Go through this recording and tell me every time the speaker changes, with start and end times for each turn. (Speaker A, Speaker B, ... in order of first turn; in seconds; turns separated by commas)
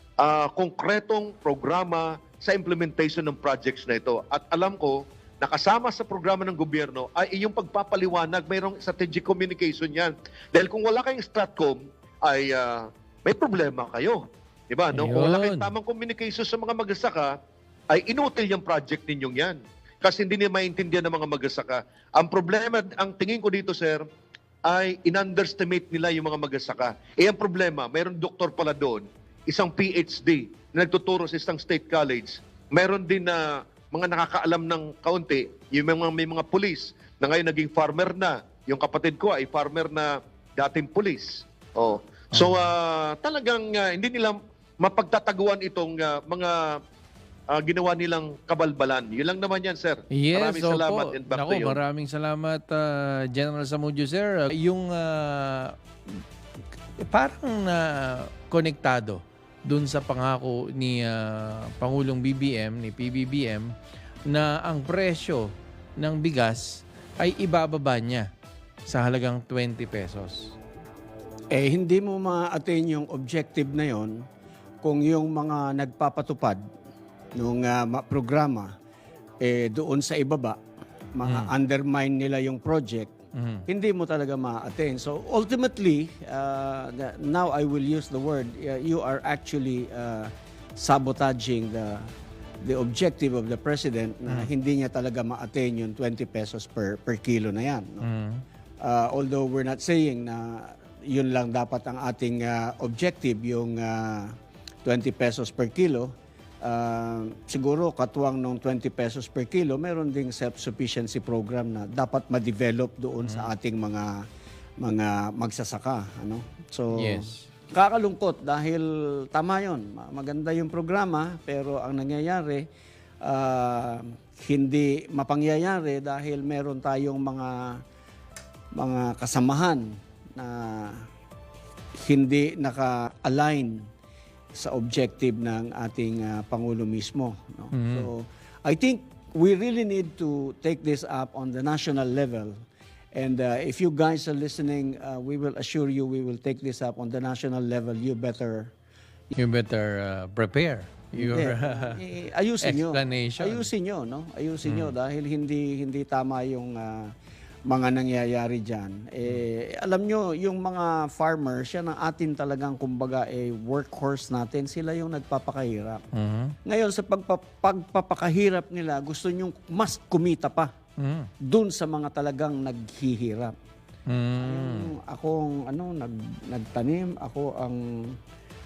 Speaker A: 0.2-17.4, Speaker B: 14.9-15.7, Speaker A: 17.9-24.0, Speaker A: 24.6-46.8, Speaker B: 42.3-42.7, Speaker A: 47.5-51.8, Speaker B: 50.1-55.7, Speaker B: 57.0-63.7, Speaker B: 64.3-68.3, Speaker B: 68.9-70.5, Speaker C: 71.5-74.2, Speaker C: 74.8-76.6, Speaker C: 77.3-78.7, Speaker C: 79.4-80.6, Speaker C: 81.1-83.1, Speaker B: 81.2-81.5, Speaker B: 83.3-83.6, Speaker C: 83.7-92.1, Speaker C: 92.6-98.0, Speaker B: 98.0-98.4, Speaker C: 98.8-106.1, Speaker C: 106.6-114.2, Speaker B: 113.2-113.5, Speaker C: 114.8-122.7, Speaker B: 116.9-117.5, Speaker C: 123.2-127.8, Speaker C: 128.8-131.1, Speaker C: 131.9-133.8, Speaker C: 134.5-148.7, Speaker B: 137.7-138.1, Speaker B: 149.3-152.0, Speaker C: 151.2-157.1, Speaker B: 152.6-153.7, Speaker B: 154.6-154.9, Speaker C: 157.7-166.0, Speaker B: 166.1-166.5, Speaker C: 166.6-170.7, Speaker B: 171.0-171.3, Speaker C: 171.4-173.5, Speaker B: 174.1-174.9, Speaker C: 174.4-178.2